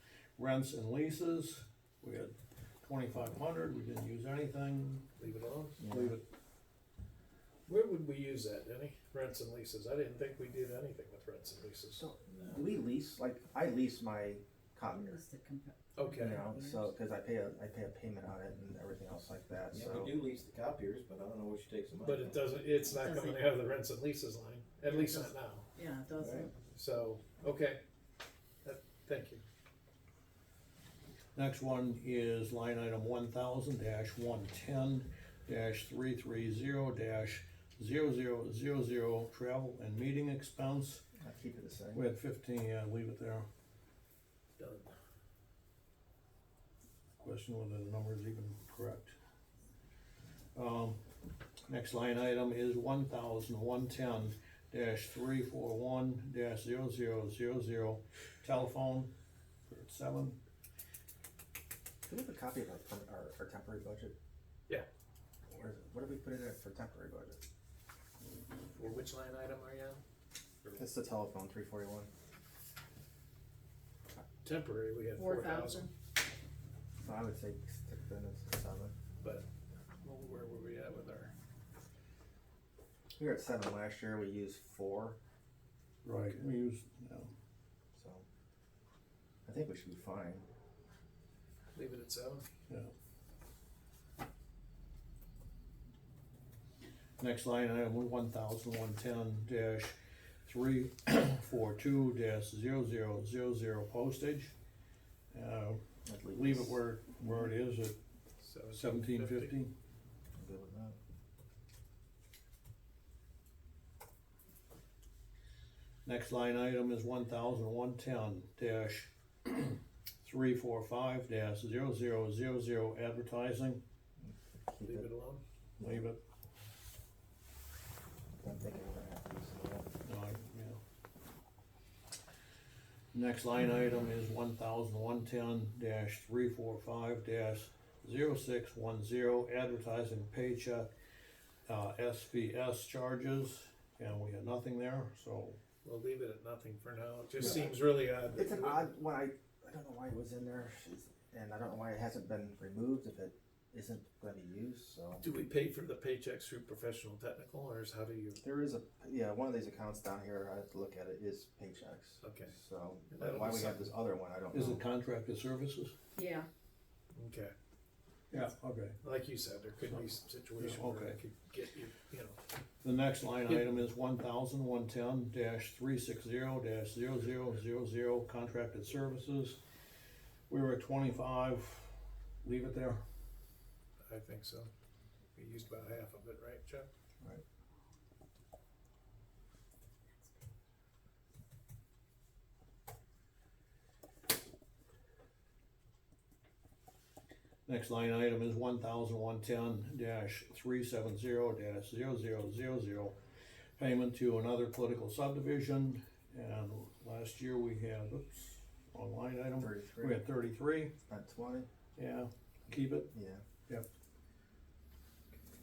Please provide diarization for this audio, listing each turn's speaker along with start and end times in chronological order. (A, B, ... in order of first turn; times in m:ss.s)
0:00.4-0:05.1 A
0:05.2-0:05.8 B
0:05.8-0:06.2 C
0:05.8-0:06.2 A
0:07.7-0:12.0 B
0:12.0-0:15.2 C
0:12.2-0:12.7 D
0:14.9-0:16.9 E
0:15.9-0:16.5 B
0:16.2-0:20.1 C
0:19.7-0:22.6 D
0:22.0-0:25.7 B
0:22.8-0:23.4 E
0:24.9-0:26.5 E
0:26.2-0:26.5 D
0:26.7-0:27.8 B
0:28.6-0:29.4 B
0:31.3-0:41.0 A
0:41.2-0:42.0 C
0:41.9-0:43.4 A
0:44.6-0:44.9 B
0:47.2-0:49.1 A
0:50.5-0:51.0 A
0:51.7-0:59.1 A
0:59.7-1:00.4 A
1:02.1-1:04.2 C
1:05.5-1:07.4 C
1:08.7-1:10.0 B
1:10.8-1:12.1 C
1:14.4-1:15.9 B
1:15.2-1:15.9 E
1:17.0-1:18.9 C
1:19.2-1:19.4 B
1:20.0-1:21.3 B
1:23.2-1:25.2 C
1:26.0-1:27.3 A
1:27.9-1:28.2 C
1:29.4-1:30.5 C
1:31.7-1:32.5 B
1:37.2-1:44.5 A
1:45.3-1:48.0 A
1:46.0-1:47.5 C
1:48.4-1:49.6 B
1:48.7-1:49.7 A
1:50.3-1:51.0 C
1:56.0-2:03.8 A
2:04.2-2:05.1 C
2:04.8-2:05.4 B
2:05.8-2:06.0 C
2:05.8-2:06.2 A
2:08.4-2:09.9 C
2:10.0-2:10.8 A
2:13.1-2:20.9 A
2:21.7-2:25.6 A
2:25.8-2:28.9 B
2:27.4-2:27.7 C
2:28.3-2:35.2 C
2:35.2-2:38.4 B
2:38.4-2:44.8 C
2:42.2-2:42.6 B
2:43.1-2:43.9 B
2:44.5-2:45.9 A
2:46.2-2:46.5 E
2:47.1-2:47.5 B
2:48.3-2:49.0 A
2:49.0-2:52.4 B
2:50.6-2:51.2 A
2:52.8-2:59.6 A
3:00.5-3:03.0 A
3:04.1-3:04.7 B
3:05.3-3:06.9 B
3:17.6-3:23.2 A
3:23.8-3:30.9 A
3:29.6-3:30.2 C
3:31.1-3:31.7 C
3:32.0-3:33.1 A
3:33.1-3:33.4 C